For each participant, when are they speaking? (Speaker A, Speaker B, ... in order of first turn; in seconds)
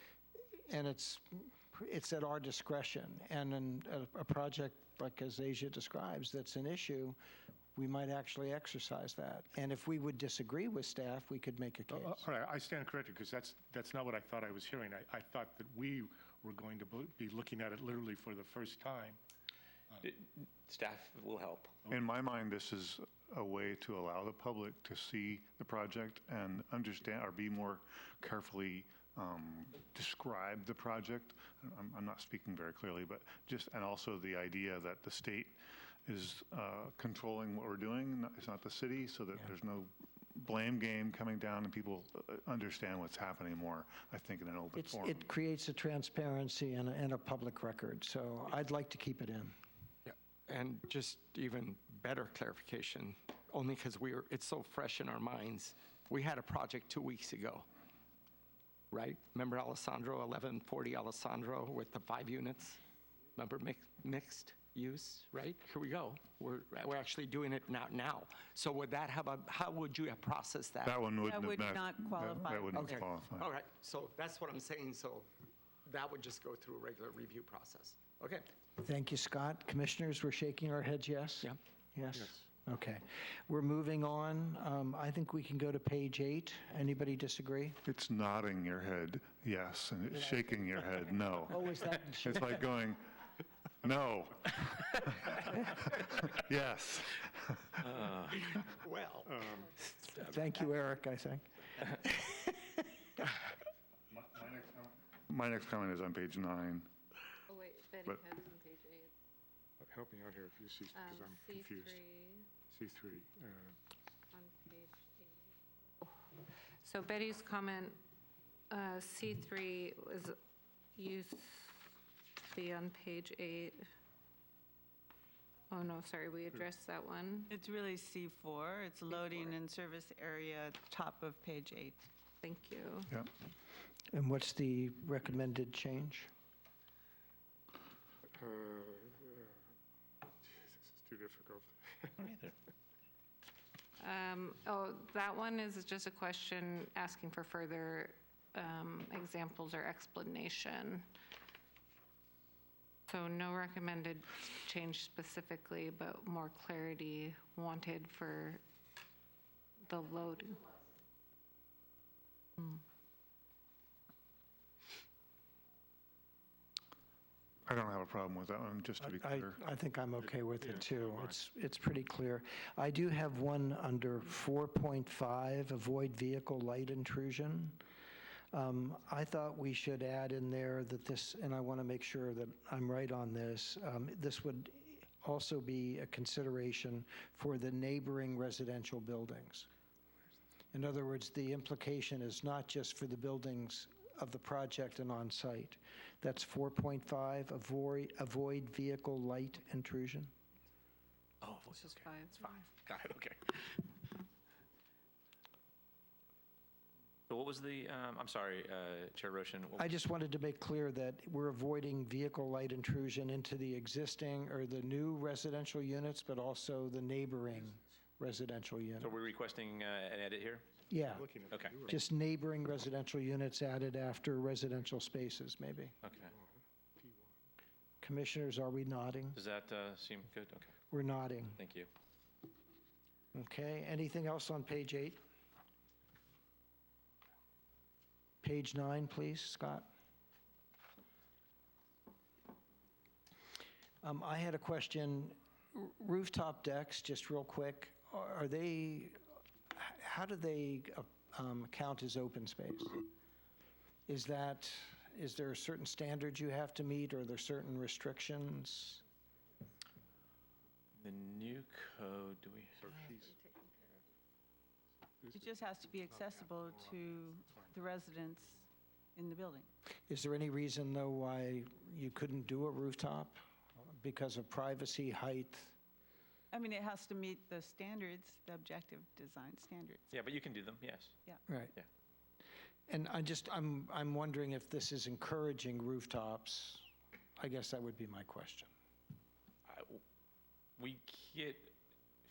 Speaker A: 0.7-7.2, 7.7-12.2, 44.8-49.5, 78.8-87.8, 91.5-92.5, 100.1-102.5, 134.1-136.3, 169.0-177.8, 178.5-189.7, 190.7-200.3, 209.8-219.1, 220.9-221.3, 221.9-225.9, 228.0-229.4, 230.9-231.6, 233.3-235.2, 238.4-239.9, 244.0-249.2, 249.7-253.0, 254.1-259.0, 270.1-275.8, 281.5-281.7, 282.9-286.9, 287.4-288.7
Speaker B: 11.9-19.2, 109.8-112.0, 112.7-113.7, 140.8-141.7, 221.1-222.0
Speaker C: 20.0-21.7, 97.8-98.5, 201.4-203.7, 207.3-209.9, 219.0-220.7, 221.5-221.8, 226.0-226.4, 229.3-230.7, 231.6-231.9, 261.0-263.3, 280.1-281.1, 289.7-290.0, 290.8-291.7
Speaker D: 21.9-45.2, 70.8-73.5, 87.8-93.3, 93.8-97.9, 104.1-106.9, 167.7-169.6
Speaker E: 50.0-57.7, 58.9-62.8, 63.4-71.0, 72.7-75.3, 75.8-78.5, 98.5-99.3
Speaker F: 71.2-72.9, 127.5-132.0, 265.3-269.7, 276.5-280.1
Speaker G: 107.5-109.1, 110.9-112.5, 114.3-115.3, 116.8-118.0, 118.7-120.3, 121.0-121.9, 122.4-123.8, 125.7-127.5, 132.4-133.2, 144.0-151.0, 153.1-158.6, 159.8-160.7, 201.7-202.7